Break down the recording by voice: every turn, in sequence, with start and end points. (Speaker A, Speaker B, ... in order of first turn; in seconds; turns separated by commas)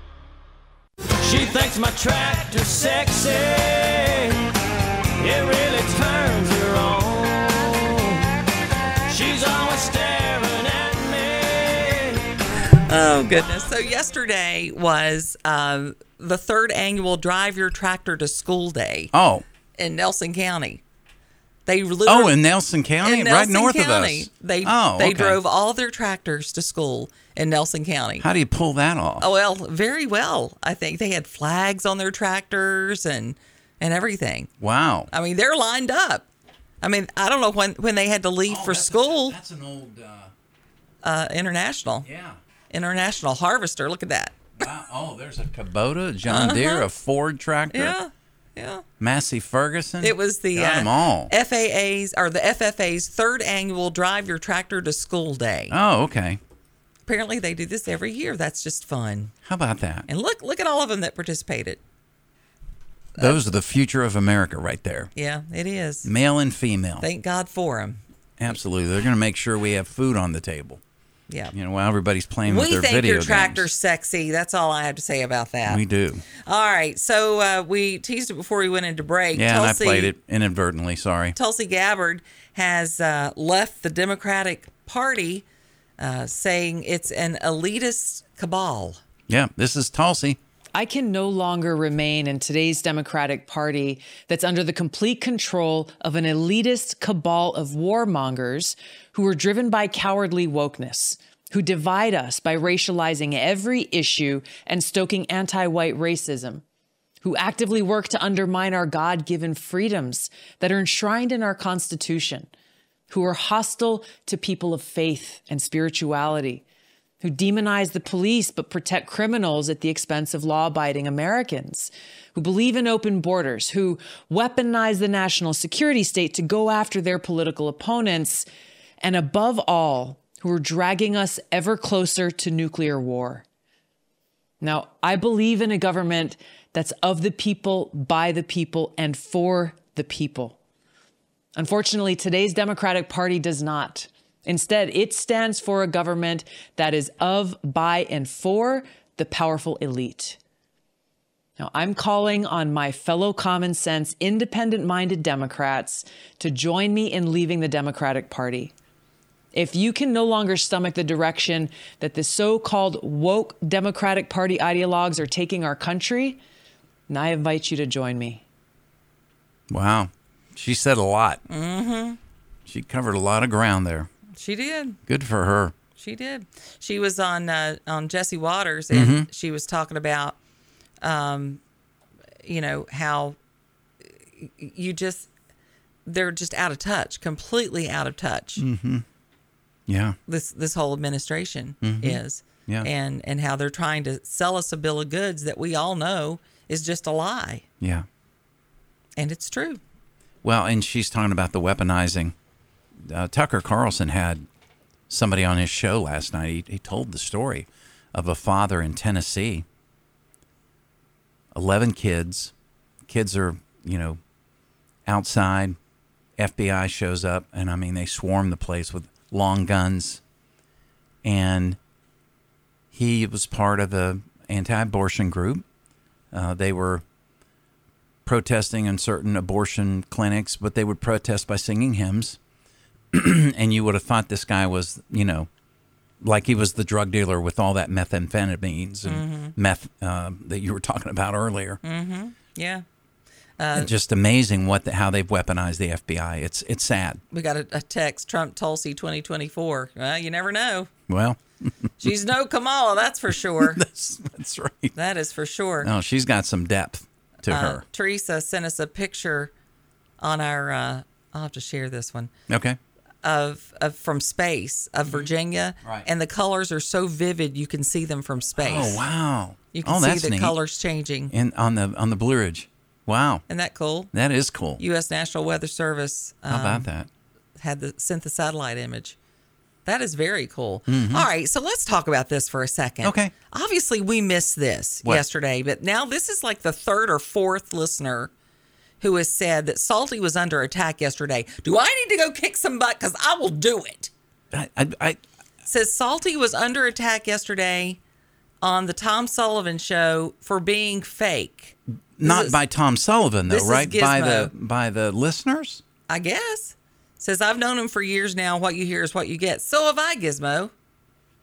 Speaker A: 1.2-4.4, Speaker A: 5.2-8.2, Speaker A: 9.1-12.3, Speaker B: 12.8-19.1, Speaker C: 19.1-19.4, Speaker B: 19.8-20.8, Speaker B: 21.6-22.4, Speaker C: 22.1-25.4, Speaker B: 23.0-28.2, Speaker C: 28.2-29.3, Speaker B: 29.2-34.5, Speaker C: 34.6-35.1, Speaker B: 35.1-36.2, Speaker B: 36.8-39.4, Speaker C: 38.5-40.3, Speaker B: 41.0-42.1, Speaker C: 42.0-42.4, Speaker B: 42.7-44.5, Speaker C: 44.6-48.0, Speaker B: 46.2-46.9, Speaker B: 47.7-48.8, Speaker C: 49.0-51.3, Speaker B: 50.0-55.8, Speaker C: 55.7-56.4, Speaker B: 57.1-59.3, Speaker C: 59.4-60.1, Speaker B: 60.1-61.8, Speaker C: 63.2-65.1, Speaker B: 65.1-66.1, Speaker C: 66.0-67.0, Speaker B: 67.0-68.0, Speaker C: 68.4-70.8, Speaker C: 71.5-73.7, Speaker B: 72.4-75.8, Speaker C: 75.7-76.2, Speaker B: 76.4-80.1, Speaker C: 79.3-81.3, Speaker B: 81.3-85.4, Speaker B: 86.0-89.0, Speaker C: 89.3-90.4, Speaker D: 90.7-106.6, Speaker D: 107.2-112.5, Speaker D: 113.1-116.6, Speaker D: 117.2-128.5, Speaker D: 129.0-133.4, Speaker D: 134.6-140.6, Speaker D: 141.5-150.4, Speaker D: 151.6-158.7, Speaker D: 159.5-166.4, Speaker D: 167.1-168.4, Speaker C: 169.7-171.4, Speaker B: 171.5-172.2, Speaker C: 172.7-174.1, Speaker B: 174.4-175.0, Speaker C: 175.1-175.7, Speaker B: 176.0-180.3, Speaker C: 178.9-179.3, Speaker B: 181.0-181.6, Speaker B: 182.4-183.3, Speaker B: 184.4-185.3, Speaker B: 186.1-188.6, Speaker C: 188.6-189.0, Speaker C: 189.9-190.2, Speaker B: 190.3-197.6, Speaker C: 191.8-192.9, Speaker C: 197.8-198.1, Speaker B: 199.2-199.8, Speaker C: 200.4-202.3, Speaker C: 203.0-204.4, Speaker C: 205.1-209.6, Speaker C: 211.5-212.5, Speaker C: 213.1-214.2, Speaker C: 215.1-215.8, Speaker C: 216.4-220.2, Speaker C: 221.2-221.8, Speaker C: 222.9-225.6, Speaker C: 226.3-227.0, Speaker C: 228.2-232.4, Speaker C: 233.1-235.5, Speaker C: 236.2-241.8, Speaker B: 239.0-239.5, Speaker B: 241.8-242.8, Speaker B: 243.6-243.9, Speaker C: 243.7-247.2, Speaker B: 247.3-250.9, Speaker C: 251.1-251.9, Speaker B: 252.0-253.8, Speaker C: 253.6-254.9, Speaker B: 254.9-255.9, Speaker C: 255.8-257.8, Speaker B: 257.4-259.5, Speaker B: 260.2-262.3, Speaker C: 262.5-262.8, Speaker B: 263.2-269.0, Speaker C: 268.6-270.6, Speaker B: 269.7-271.3, Speaker C: 271.3-273.4, Speaker B: 273.5-274.1, Speaker C: 274.1-274.8, Speaker B: 274.8-276.9, Speaker C: 276.5-277.1, Speaker B: 277.6-279.1, Speaker B: 279.8-288.3, Speaker C: 280.9-281.3, Speaker C: 283.0-283.3, Speaker B: 289.0-294.1, Speaker C: 294.5-295.2, Speaker B: 295.6-298.0, Speaker B: 298.6-302.6, Speaker C: 302.2-305.8, Speaker B: 303.5-304.5, Speaker B: 306.1-310.7